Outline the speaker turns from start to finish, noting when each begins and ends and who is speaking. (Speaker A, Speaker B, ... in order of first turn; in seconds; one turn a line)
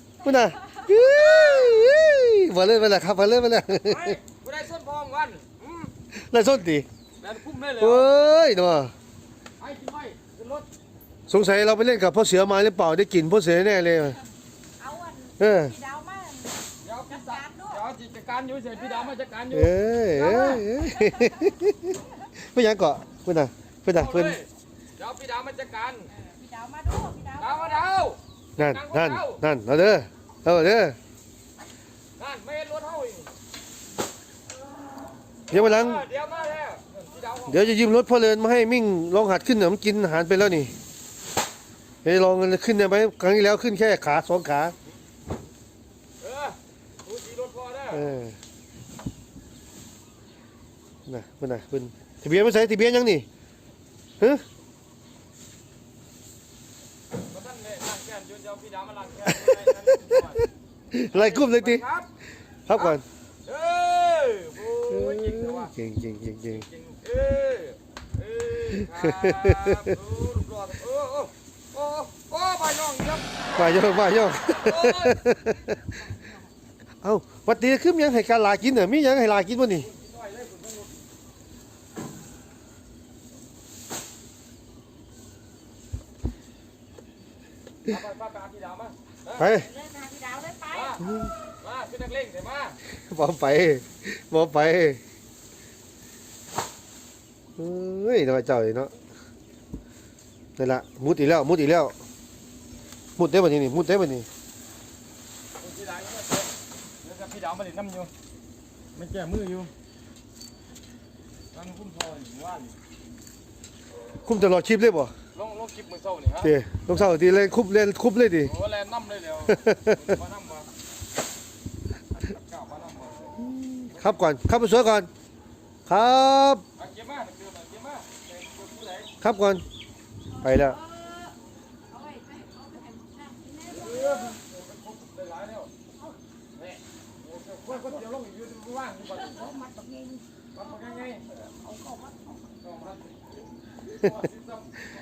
Speaker A: 0.2-4.2
Speaker B: 3.8-5.9
Speaker A: 6.1-6.9
Speaker B: 7.2-8.1
Speaker A: 7.8-8.9
Speaker B: 9.6-10.7
Speaker A: 11.3-14.2
Speaker C: 14.8-16.6
Speaker A: 15.4-15.8
Speaker B: 16.8-19.7
Speaker C: 17.1-17.8
Speaker A: 19.5-24.4
Speaker C: 20.2-20.6
Speaker B: 23.9-26.1
Speaker C: 26.1-27.8
Speaker B: 27.4-29.4
Speaker A: 28.6-31.0
Speaker B: 32.2-33.3
Speaker A: 35.5-36.0
Speaker B: 35.5-37.6
Speaker A: 37.5-40.7
Speaker A: 42.0-44.8
Speaker B: 46.2-48.0
Speaker A: 47.9-48.4
Speaker A: 51.0-53.3
Speaker B: 57.3-60.5
Speaker A: 60.9-61.8
Speaker B: 61.1-62.1
Speaker A: 62.7-63.0
Speaker B: 62.7-65.7
Speaker A: 64.9-66.6
Speaker B: 66.5-73.6
Speaker A: 68.7-70.0
Speaker A: 73.5-75.8
Speaker B: 74.5-75.2
Speaker A: 77.0-79.9
Speaker B: 79.9-80.9
Speaker B: 87.9-89.4
Speaker A: 89.3-89.7
Speaker C: 89.5-91.0
Speaker B: 90.7-91.0
Speaker A: 91.0-91.3
Speaker B: 91.6-92.8
Speaker A: 93.1-95.0
Speaker A: 97.6-98.9
Speaker A: 100.6-102.0
Speaker A: 103.2-104.3
Speaker B: 105.6-106.5
Speaker B: 107.0-108.1
Speaker B: 108.9-109.7
Speaker B: 111.5-112.8
Speaker A: 114.2-115.1
Speaker B: 115.3-116.5
Speaker A: 116.4-118.5
Speaker B: 118.4-120.7
Speaker A: 119.5-120.2
Speaker B: 122.3-124.0
Speaker A: 123.4-125.1
Speaker A: 125.8-126.6
Speaker B: 126.8-129.1
Speaker A: 129.2-129.6
Speaker A: 130.4-130.8
Speaker C: 131.9-134.1
Speaker B: 133.7-135.7
Speaker B: 136.6-139.7
Speaker C: 139.3-140.2
Speaker B: 140.5-141.3
Speaker C: 141.6-142.3
Speaker B: 142.6-143.0
Speaker B: 143.9-144.8